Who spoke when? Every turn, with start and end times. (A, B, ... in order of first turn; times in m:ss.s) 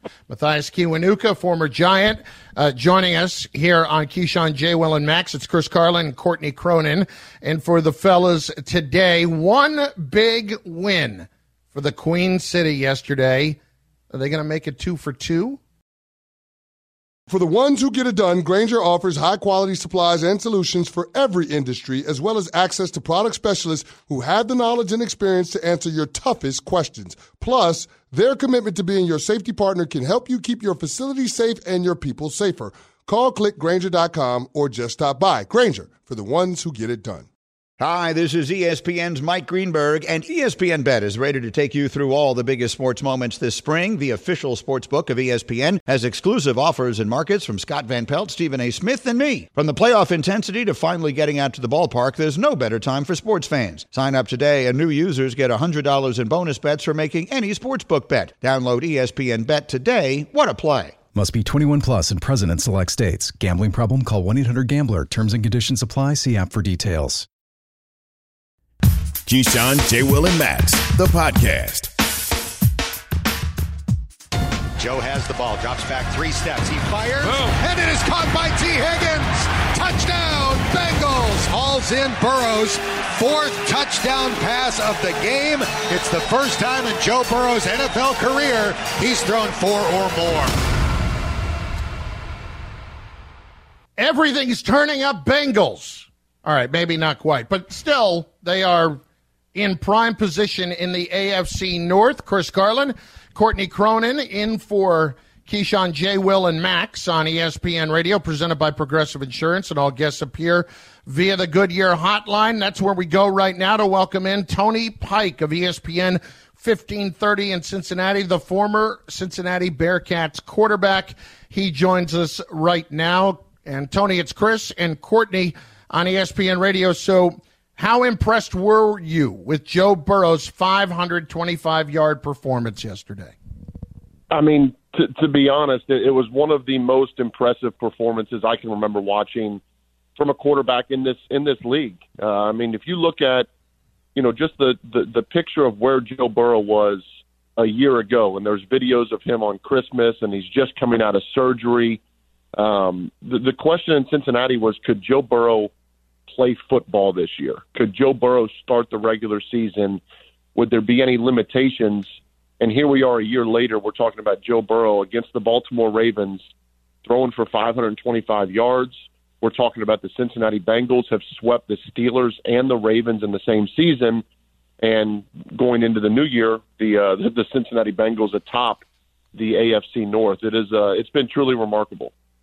0:00.3-0:13.6 A
0:14.1-0:15.6 A
0:17.3-0:37.3 B
0:37.8-1:01.0 C
1:01.2-1:07.3 D
1:09.3-1:11.9 E
1:14.8-1:30.6 F
1:34.0-1:39.0 A
1:39.5-2:13.4 A
2:14.3-2:19.6 G
2:20.2-2:23.5 G
2:24.2-2:27.0 G
2:27.6-2:32.0 G
2:32.6-2:35.7 G
2:36.3-2:40.0 G
2:40.6-2:46.4 G
2:47.0-2:54.2 G
2:54.8-3:02.1 G